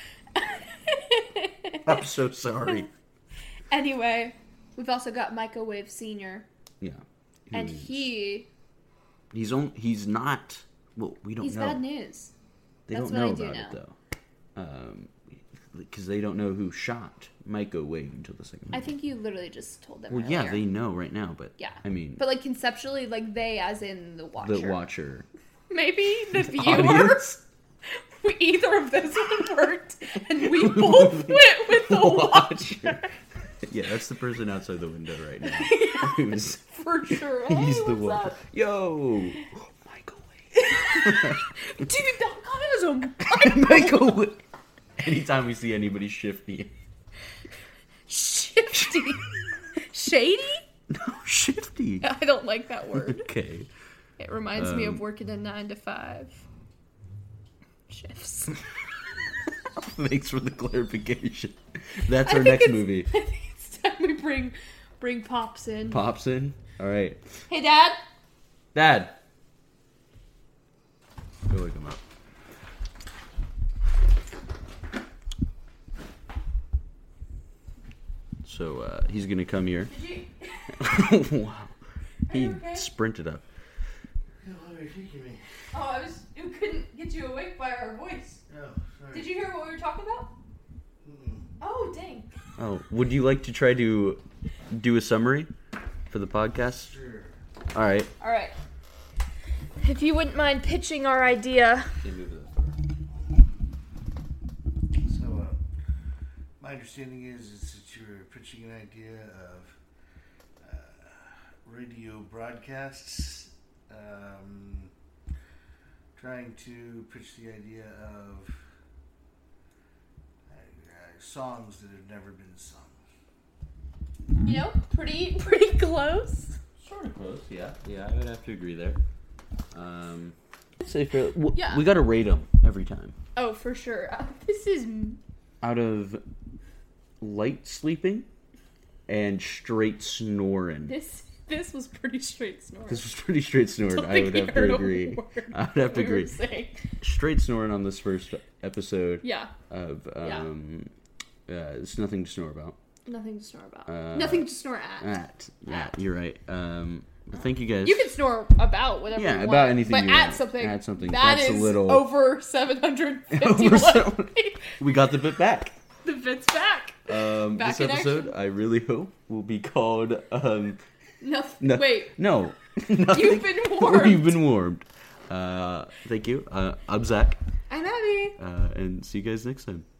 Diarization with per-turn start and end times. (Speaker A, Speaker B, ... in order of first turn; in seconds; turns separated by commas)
Speaker A: 0.3-2.0, Speaker B: 1.8-2.9, Speaker A: 3.7-6.4, Speaker B: 6.8-8.1, Speaker A: 7.5-8.5, Speaker B: 9.3-11.8, Speaker A: 11.4-12.3, Speaker B: 12.9-13.9, Speaker A: 12.9-13.8, Speaker B: 14.6-18.9, Speaker A: 18.7-20.6, Speaker B: 20.1-22.2, Speaker A: 21.6-24.8, Speaker B: 24.4-25.2, Speaker A: 25.7-33.1, Speaker B: 26.3-27.4, Speaker B: 30.4-33.0, Speaker B: 33.6-41.4, Speaker A: 35.4-38.4, Speaker A: 40.6-44.2, Speaker B: 43.2-44.4, Speaker B: 45.0-46.7, Speaker A: 48.1-50.6, Speaker B: 50.9-52.0, Speaker A: 52.0-53.3, Speaker B: 52.9-53.7, Speaker A: 54.2-56.4, Speaker B: 54.5-55.0, Speaker A: 57.9-58.6, Speaker B: 59.7-63.1, Speaker A: 62.2-66.0, Speaker B: 65.9-67.2, Speaker A: 67.5-68.0, Speaker B: 68.7-69.2, Speaker B: 71.5-72.0, Speaker B: 78.4-79.9, Speaker A: 79.9-80.9, Speaker B: 80.8-81.7, Speaker A: 82.3-82.9, Speaker B: 82.3-83.4, Speaker C: 84.4-85.4, Speaker A: 85.7-88.4, Speaker C: 88.5-89.3, Speaker A: 89.1-90.3, Speaker C: 91.0-91.5, Speaker A: 91.6-92.3, Speaker B: 92.6-95.5, Speaker B: 96.1-96.9, Speaker C: 96.7-97.4, Speaker B: 97.7-98.1, Speaker A: 98.2-98.5, Speaker A: 99.8-102.0, Speaker B: 102.0-102.8, Speaker C: 105.0-105.6, Speaker C: 106.6-109.8, Speaker C: 110.6-114.9, Speaker C: 116.2-118.5, Speaker C: 120.5-123.0, Speaker A: 124.4-126.6, Speaker B: 126.8-129.0, Speaker B: 129.7-133.2, Speaker A: 131.5-131.8, Speaker A: 133.3-135.2, Speaker B: 135.6-136.2, Speaker B: 137.2-138.3, Speaker B: 139.1-140.9, Speaker A: 140.9-143.0, Speaker B: 142.9-146.3, Speaker A: 143.8-147.0, Speaker B: 147.0-150.9, Speaker A: 149.2-149.5, Speaker A: 150.2-150.5, Speaker B: 151.5-152.8, Speaker A: 153.1-155.1, Speaker B: 153.9-158.1, Speaker A: 157.8-164.8, Speaker B: 159.1-162.1, Speaker B: 163.3-165.8, Speaker A: 166.0-168.3, Speaker B: 167.1-170.8, Speaker A: 171.2-172.2, Speaker B: 171.6-177.4, Speaker A: 173.1-174.4, Speaker A: 177.7-178.4, Speaker B: 178.4-179.8